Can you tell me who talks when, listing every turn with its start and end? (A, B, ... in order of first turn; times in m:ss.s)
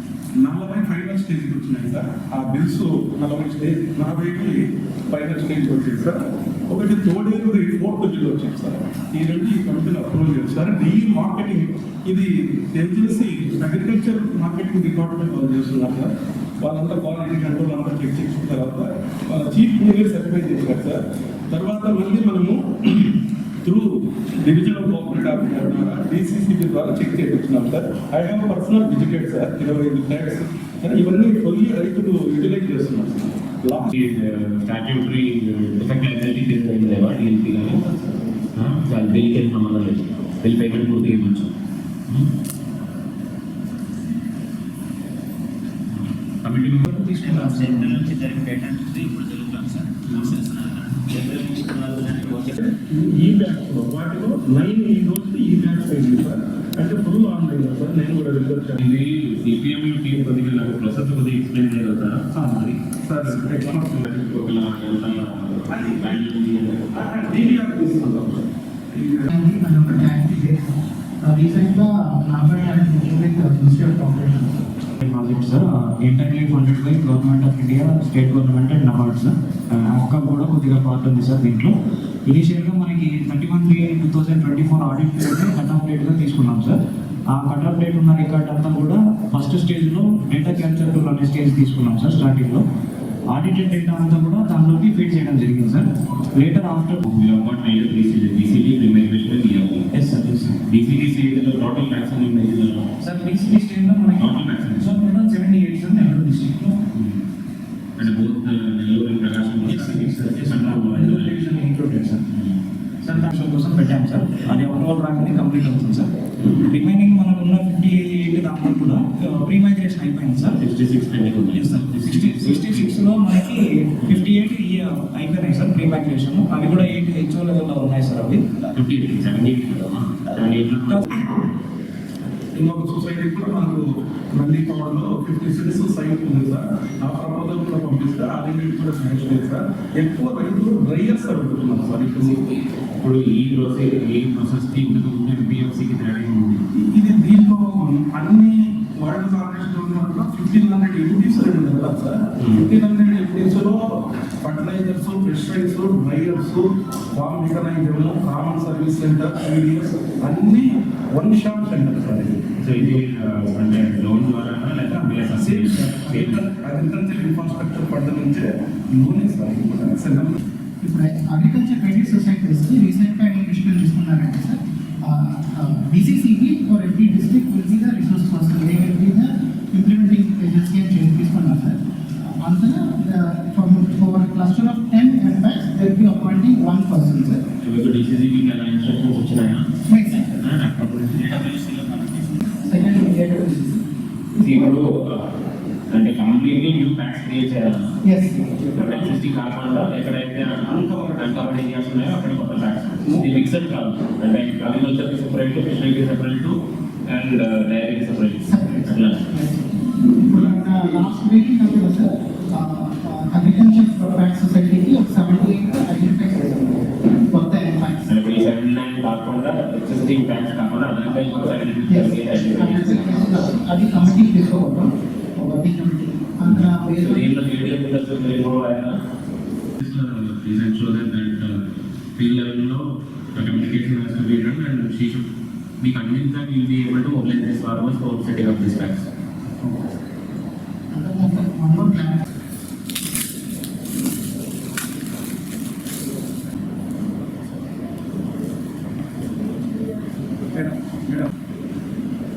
0:00.4-0:34.0 A
0:33.9-0:37.8 B
0:37.9-0:38.4 A
0:38.5-0:41.5 B
0:46.4-0:46.8 A
0:46.8-0:48.1 C
0:47.2-0:52.5 D
0:52.5-0:58.8 A
0:58.8-1:02.3 B
1:02.4-1:02.8 C
1:03.0-1:04.0 A
1:03.8-1:06.9 B
1:05.7-1:06.3 A
1:06.9-1:09.3 A
1:09.3-1:14.6 E
1:15.0-1:21.7 C
1:22.3-1:26.8 C
1:27.3-1:32.6 C
1:33.3-1:37.0 C
1:37.0-1:39.9 B
1:39.9-1:40.6 C
1:40.6-1:42.9 B
1:43.0-1:46.8 C
1:44.2-1:45.0 B
1:46.9-1:47.2 B
1:48.0-1:51.4 B
1:49.6-1:52.4 C
1:53.0-2:00.6 C
2:00.6-2:03.0 B
2:01.5-2:08.5 C
2:08.7-2:11.2 B
2:10.9-2:11.3 C
2:12.6-2:22.4 A
2:22.2-2:26.7 B
2:26.7-2:43.1 A
2:32.4-2:32.7 B
2:42.6-2:46.4 B
2:45.2-2:50.4 A
2:50.8-3:07.4 E
3:07.6-3:12.2 B
3:09.9-3:10.3 E
3:12.6-3:13.8 E
3:14.4-3:15.3 B
3:15.9-3:18.0 B
3:18.0-3:18.6 E
3:18.7-3:19.2 A
3:18.7-3:29.2 B
3:20.6-3:21.6 A
3:28.4-3:38.1 E
3:30.4-3:30.8 A
3:38.1-3:43.4 B
3:41.1-3:47.4 E
3:46.5-3:49.0 B
3:49.8-3:55.3 B
3:55.8-3:59.1 B
3:59.6-3:59.9 E
4:00.9-4:02.2 E
4:10.5-4:11.3 A